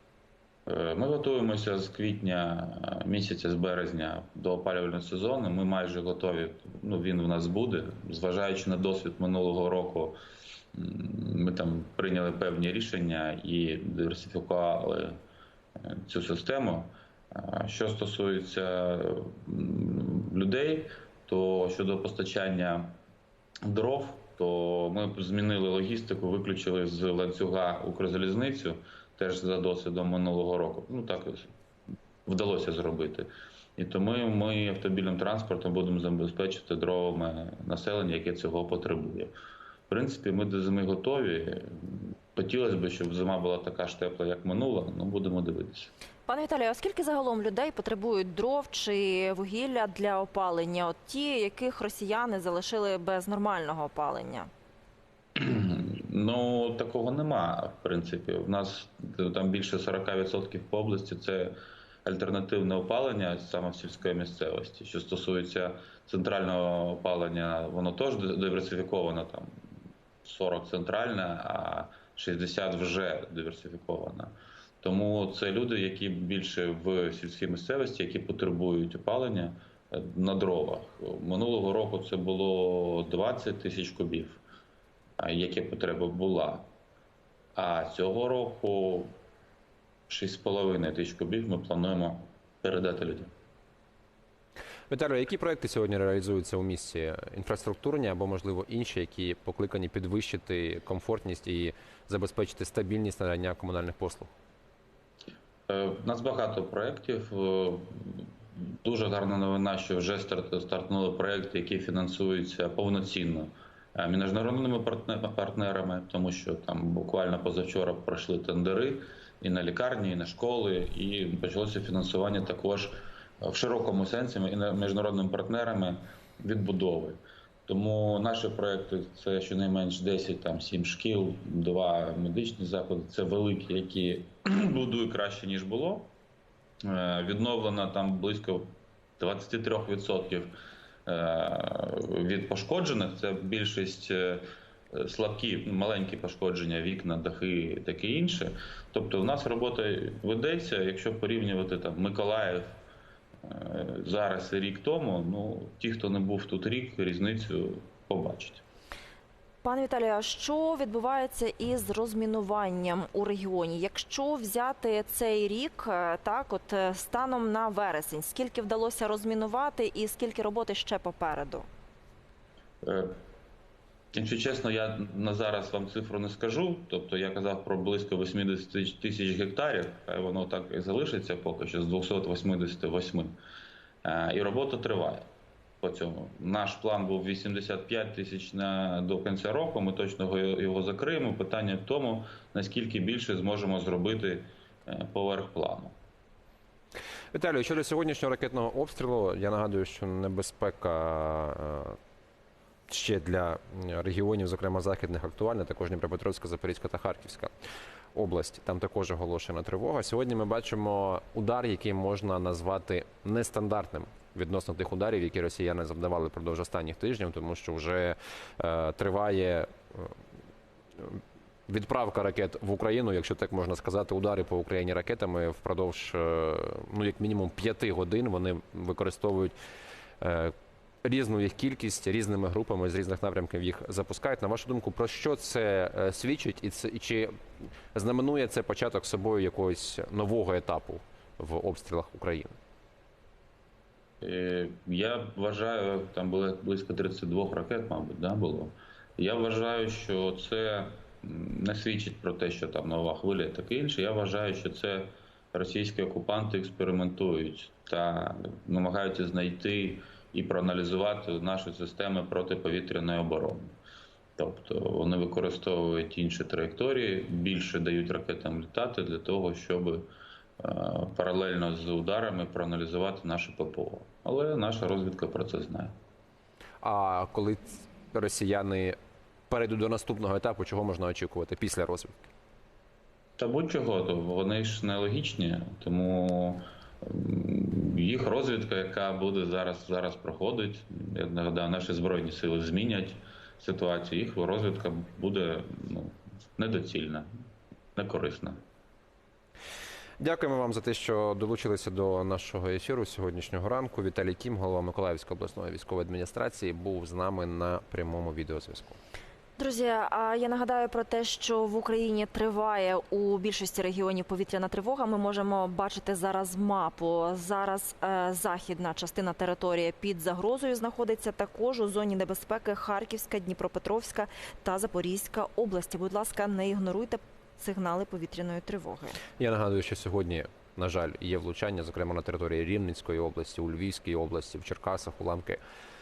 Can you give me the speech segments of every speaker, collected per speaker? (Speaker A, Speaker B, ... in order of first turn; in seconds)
Speaker A: 0.7-10.2, 10.7-15.2, 15.8-23.0, 23.6-31.5, 32.2-39.3, 39.9-45.9, 55.4-69.5, 70.2-84.4, 85.2-86.7, 87.5-89.1, 90.1-93.3, 105.7-108.3, 108.8-136.1, 136.8-140.5, 141.1-152.8, 153.4-158.6, 172.8-173.1, 174.1-183.3, 184.0-185.3, 185.8-195.9, 244.2-263.8, 264.4-275.9, 283.4-297.3, 297.9-298.6
Speaker B: 46.3-54.5, 159.6-171.7, 309.6-329.2
Speaker C: 94.9-104.3, 197.3-201.9, 202.9-207.5, 208.1-220.1, 221.0-229.5, 230.2-237.3, 237.9-242.6, 276.8-278.9, 279.5-282.2, 300.2-309.0, 329.4-335.6